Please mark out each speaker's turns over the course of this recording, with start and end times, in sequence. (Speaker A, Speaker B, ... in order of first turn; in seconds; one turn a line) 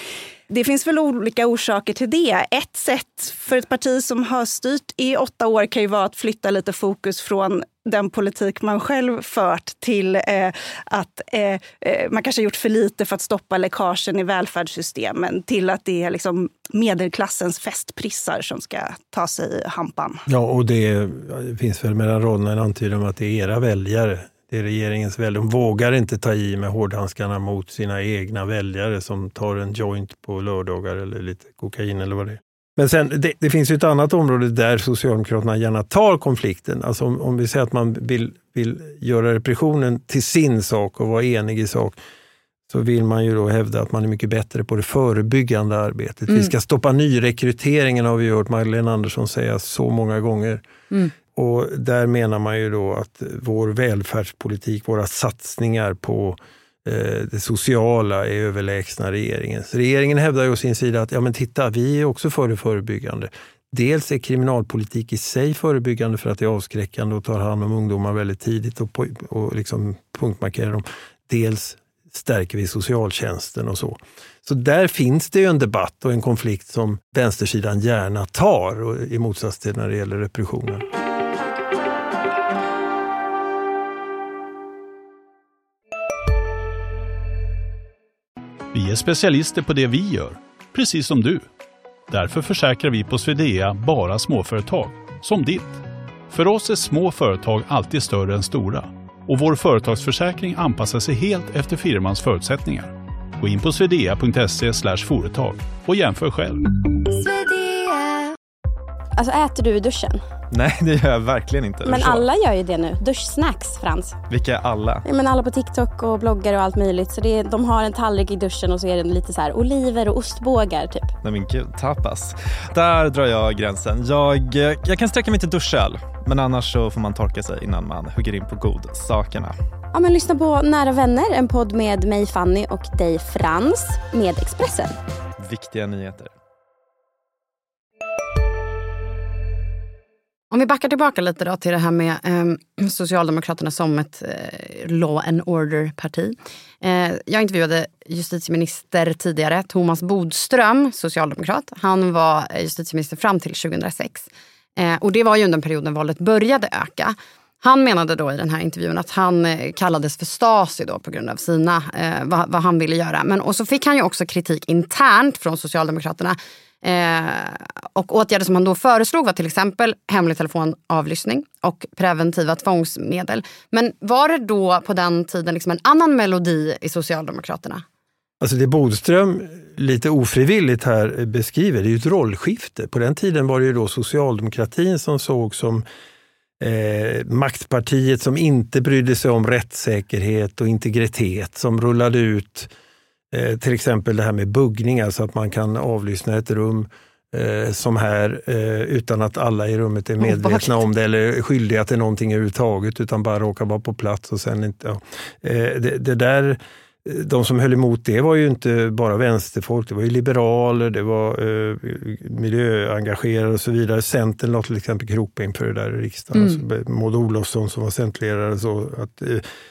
Speaker A: 0.5-20.2
Speaker B: 20.3-42.0
Speaker B: 42.7-50.6
Speaker B: 51.3-80.9
Speaker C: 88.7-91.5
Speaker C: 92.1-106.7
Speaker D: 107.1-108.3
Speaker D: 109.2-110.2
Speaker E: 110.5-112.3
Speaker D: 111.8-114.2
Speaker E: 114.3-115.0
Speaker D: 115.0-121.1
Speaker E: 121.2-129.6
Speaker D: 129.9-135.0
Speaker E: 135.4-136.3
Speaker F: 140.5-177.8
Speaker B: 178.4-185.8
Speaker B: 186.6-192.7
Speaker B: 193.3-219.4
Speaker F: 200.2-200.8